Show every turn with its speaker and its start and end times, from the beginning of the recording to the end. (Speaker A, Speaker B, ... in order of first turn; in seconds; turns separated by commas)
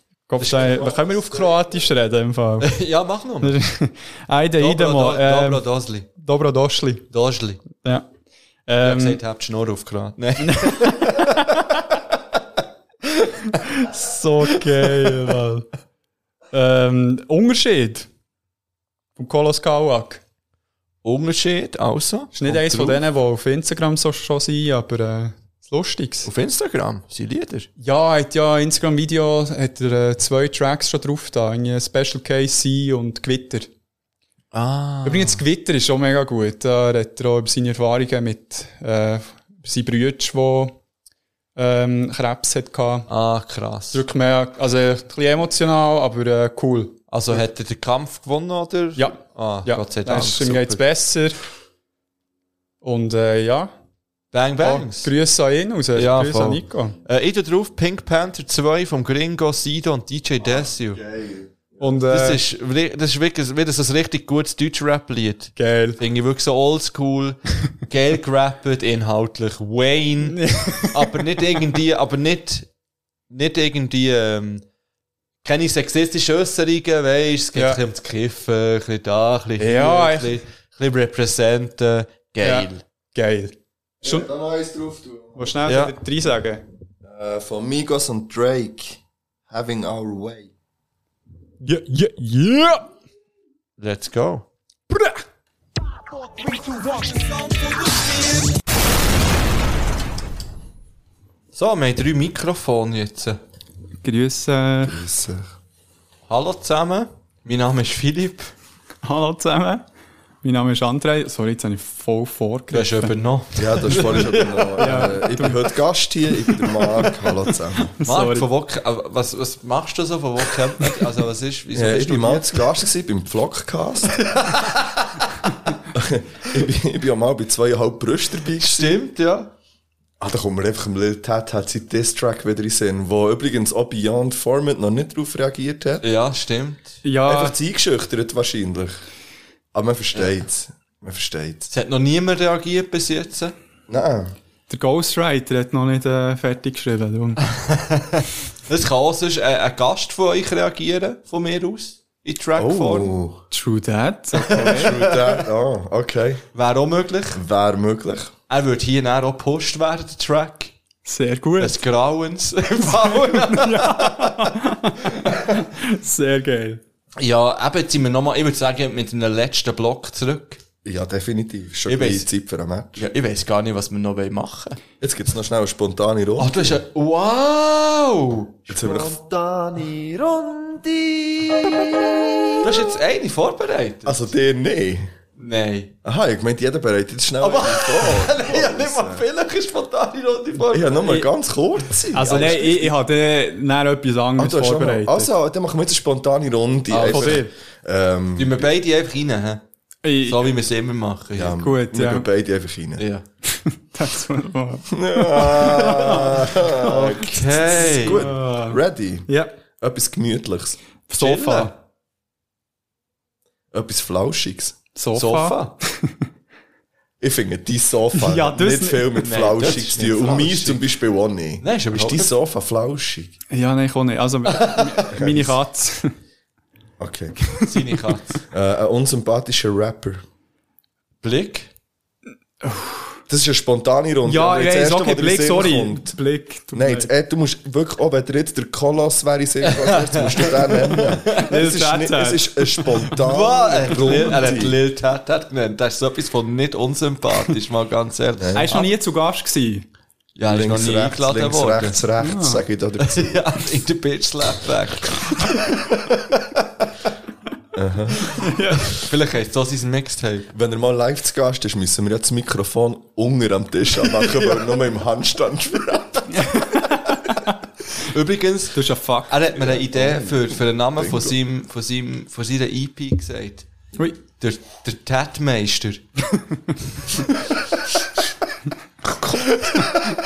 Speaker A: 0.3-2.7, Speaker B: 0.4-0.9, Speaker C: 0.5-1.8, Speaker B: 2.6-3.5, Speaker A: 3.4-7.1, Speaker B: 4.6-6.1, Speaker B: 7.1-7.7, Speaker A: 7.8-8.1, Speaker A: 8.7-9.2, Speaker B: 8.8-11.4, Speaker A: 10.4-11.6, Speaker A: 13.6-15.7, Speaker B: 14.5-15.3, Speaker A: 16.5-18.1, Speaker A: 19.1-20.2, Speaker B: 21.0-23.0, Speaker A: 22.3-26.3, Speaker B: 26.2-27.7, Speaker A: 27.8-33.7, Speaker B: 34.5-35.4, Speaker A: 35.0-40.8, Speaker A: 41.5-43.1, Speaker B: 43.1-44.0, Speaker A: 43.9-47.4, Speaker B: 47.1-50.8, Speaker A: 49.0-51.4, Speaker A: 52.8-53.7, Speaker B: 54.3-55.1, Speaker A: 54.6-57.0, Speaker B: 55.9-61.0, Speaker C: 60.4-62.0, Speaker A: 61.8-62.4, Speaker B: 62.1-70.4, Speaker A: 65.5-66.0, Speaker A: 70.2-71.2, Speaker B: 70.9-72.7, Speaker B: 73.3-74.6, Speaker B: 75.4-82.8, Speaker A: 77.5-77.8, Speaker A: 79.6-80.4, Speaker A: 82.4-84.3, Speaker C: 84.0-85.6, Speaker A: 85.3-86.6, Speaker B: 85.7-85.9, Speaker C: 87.0-90.5, Speaker A: 91.6-92.9, Speaker B: 93.8-94.5, Speaker A: 94.9-95.2, Speaker B: 97.0-98.5, Speaker B: 101.5-103.4, Speaker A: 104.0-105.0, Speaker C: 104.8-105.5, Speaker B: 106.3-108.5, Speaker A: 109.0-109.8, Speaker A: 110.4-113.2, Speaker B: 112.7-115.1, Speaker C: 113.5-117.9, Speaker A: 114.8-115.7, Speaker A: 118.0-118.5, Speaker B: 118.0-122.8, Speaker C: 121.7-124.3, Speaker B: 124.2-125.2, Speaker C: 125.9-129.0, Speaker B: 128.6-129.5, Speaker C: 130.2-136.0, Speaker B: 136.0-137.0, Speaker A: 137.0-137.6, Speaker C: 137.2-139.0, Speaker C: 139.7-141.7, Speaker B: 141.7-143.5, Speaker C: 143.9-144.3, Speaker A: 144.7-147.4, Speaker B: 147.5-153.1, Speaker C: 152.6-153.4, Speaker A: 153.5-154.9, Speaker B: 154.4-155.5, Speaker C: 154.5-156.4, Speaker B: 156.5-157.4, Speaker C: 157.3-158.3, Speaker B: 158.5-160.7, Speaker A: 161.0-161.8, Speaker B: 161.6-164.5, Speaker A: 162.8-166.8, Speaker B: 167.2-170.6, Speaker C: 170.8-173.1, Speaker B: 171.9-172.3, Speaker B: 172.9-174.8, Speaker C: 175.0-176.8, Speaker B: 176.4-180.9, Speaker C: 178.7-182.6, Speaker B: 182.6-184.3, Speaker C: 184.0-185.1, Speaker B: 185.4-185.9, Speaker C: 186.0-189.2, Speaker B: 187.4-191.3, Speaker C: 190.6-192.9, Speaker B: 191.8-192.7, Speaker A: 192.1-195.3, Speaker C: 194.4-198.7, Speaker B: 196.9-197.4, Speaker A: 197.0-197.5, Speaker B: 198.3-199.6, Speaker A: 200.0-200.5, Speaker B: 200.2-201.6, Speaker C: 201.3-203.1, Speaker A: 201.6-202.3, Speaker B: 203.0-203.2, Speaker A: 203.4-206.4, Speaker C: 204.9-210.8, Speaker B: 206.8-208.3, Speaker A: 207.8-209.6, Speaker A: 211.1-211.7, Speaker B: 211.2-211.7, Speaker C: 213.7-214.8, Speaker A: 214.9-216.1, Speaker B: 215.1-215.7, Speaker C: 217.2-223.4, Speaker A: 218.1-219.2, Speaker B: 219.2-220.9, Speaker B: 221.6-222.3, Speaker A: 223.5-226.1, Speaker B: 224.5-225.0, Speaker C: 225.1-225.5, Speaker C: 227.0-227.4, Speaker B: 227.6-228.4, Speaker C: 228.5-230.2, Speaker B: 231.2-231.7, Speaker A: 232.6-233.2, Speaker C: 233.3-236.2, Speaker A: 234.2-237.1, Speaker C: 236.7-244.8, Speaker B: 239.6-241.5, Speaker A: 241.4-243.0, Speaker B: 243.1-248.9, Speaker C: 248.4-248.7, Speaker A: 248.5-249.9, Speaker B: 250.3-252.0, Speaker C: 250.4-253.4, Speaker A: 252.2-252.6, Speaker B: 253.0-256.4, Speaker C: 257.7-258.3, Speaker A: 258.4-259.0, Speaker B: 258.8-260.5, Speaker C: 260.5-266.6, Speaker B: 264.0-264.9, Speaker A: 266.5-267.2, Speaker B: 267.9-273.7, Speaker A: 268.7-269.3, Speaker C: 269.6-271.4, Speaker B: 274.4-276.0, Speaker B: 279.4-279.9